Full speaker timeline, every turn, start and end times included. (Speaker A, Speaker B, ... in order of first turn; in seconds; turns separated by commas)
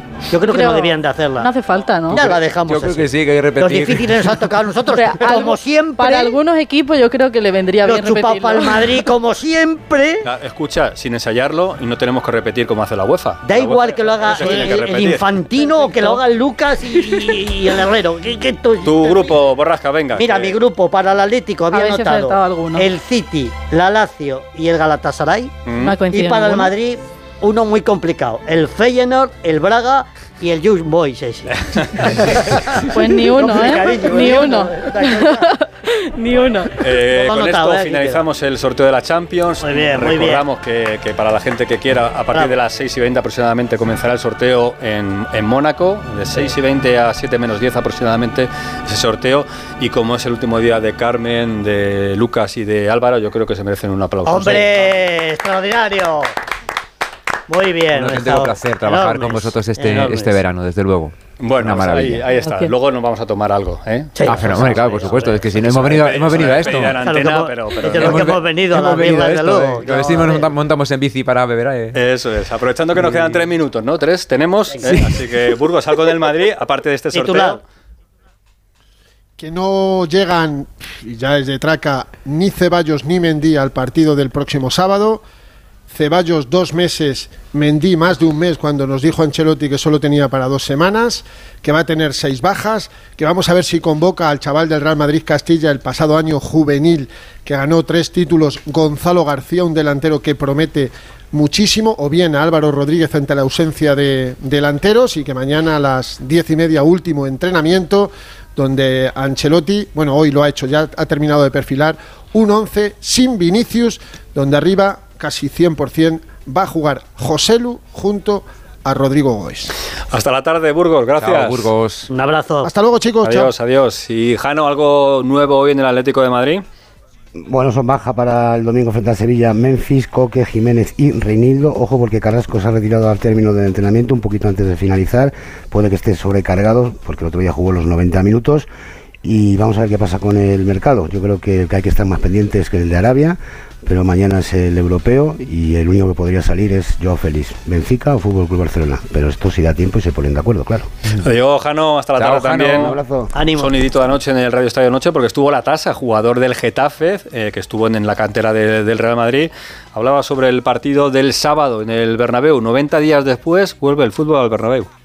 Speaker A: 0.3-1.5, Speaker B: 0.5-2.3, Speaker C: 2.1-4.4, Speaker A: 2.1-6.4, Speaker B: 4.9-9.0, Speaker A: 7.8-10.3, Speaker D: 10.2-15.4, Speaker A: 13.4-19.4, Speaker B: 15.6-16.2, Speaker D: 18.8-20.6, Speaker A: 20.1-25.5, Speaker B: 21.7-22.9, Speaker D: 25.6-26.0, Speaker B: 25.8-26.7, Speaker A: 26.1-32.8, Speaker D: 31.5-32.4, Speaker B: 32.8-36.8, Speaker A: 33.3-35.5, Speaker D: 36.8-55.0, Speaker A: 37.0-38.2, Speaker A: 39.6-40.5, Speaker A: 42.3-42.6, Speaker A: 54.2-56.3, Speaker A: 57.5-60.4, Speaker C: 57.9-62.2, Speaker D: 61.4-68.4, Speaker B: 62.4-62.7, Speaker A: 64.2-70.5, Speaker C: 64.2-67.1, Speaker C: 67.9-72.0, Speaker D: 71.9-77.6, Speaker C: 73.0-73.4, Speaker C: 74.8-75.2, Speaker A: 77.1-77.6, Speaker E: 79.4-85.2, Speaker E: 85.9-119.7, Speaker D: 120.1-121.7, Speaker C: 121.2-122.1, Speaker A: 122.1-122.7, Speaker E: 122.6-123.5, Speaker D: 123.2-126.6, Speaker F: 127.4-138.7, Speaker F: 139.2-150.9, Speaker D: 151.2-153.0, Speaker C: 152.2-152.9, Speaker F: 152.8-153.3, Speaker A: 153.3-153.7, Speaker D: 153.6-164.9